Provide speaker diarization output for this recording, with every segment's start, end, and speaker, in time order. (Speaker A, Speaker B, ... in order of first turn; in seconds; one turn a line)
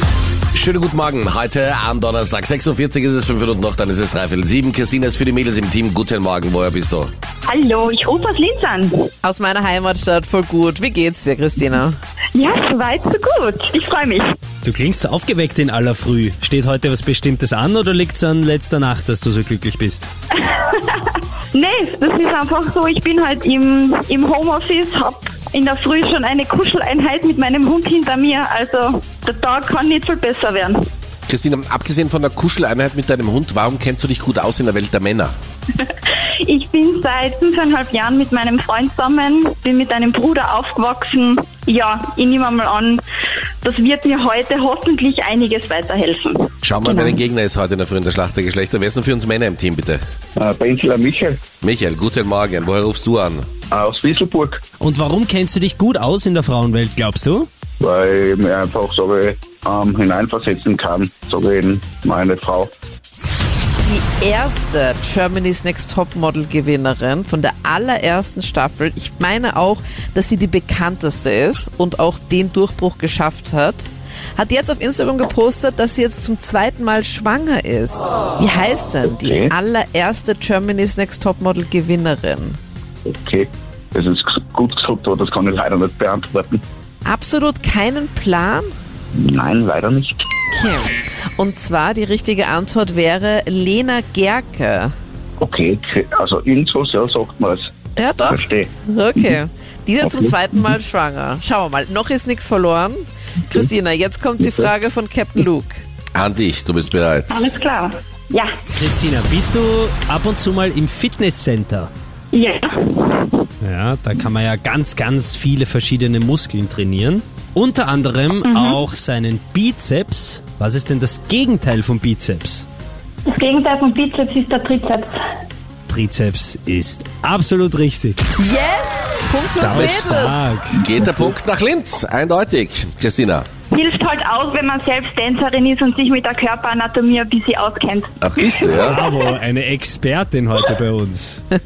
Speaker A: 0.5-7.1
Speaker B: 7.5-9.1
Speaker C: 9.2-11.9
Speaker B: 12.3-14.2
Speaker D: 14.6-20.1
Speaker B: 20.4-30.8
Speaker A: 31.3-35.3
Speaker B: 36.4-43.0
Speaker B: 43.6-47.2
Speaker A: 46.6-50.0
Speaker E: 50.4-51.4
Speaker A: 51.6-53.5
Speaker E: 53.7-54.6
Speaker D: 54.8-57.5
Speaker E: 57.8-62.7
Speaker C: 63.8-82.6
Speaker E: 79.0-79.5
Speaker E: 83.0-86.6
Speaker C: 87.0-88.7
Speaker E: 89.1-90.2
Speaker C: 90.5-94.9
Speaker E: 95.4-97.7
Speaker C: 98.0-105.8
Speaker E: 98.2-99.3
Speaker E: 100.0-100.6
Speaker A: 106.1-107.5
Speaker B: 107.3-108.6
Speaker D: 108.7-111.9
Speaker B: 112.3-113.3
Speaker D: 113.6-122.7
Speaker B: 118.4-118.8
Speaker B: 123.3-125.1
Speaker D: 125.9-128.2
Speaker C: 128.4-130.5
Speaker D: 129.5-130.7
Speaker A: 129.7-130.0
Speaker A: 130.7-133.5
Speaker B: 133.7-138.2
Speaker A: 138.2-139.0
Speaker D: 138.7-141.4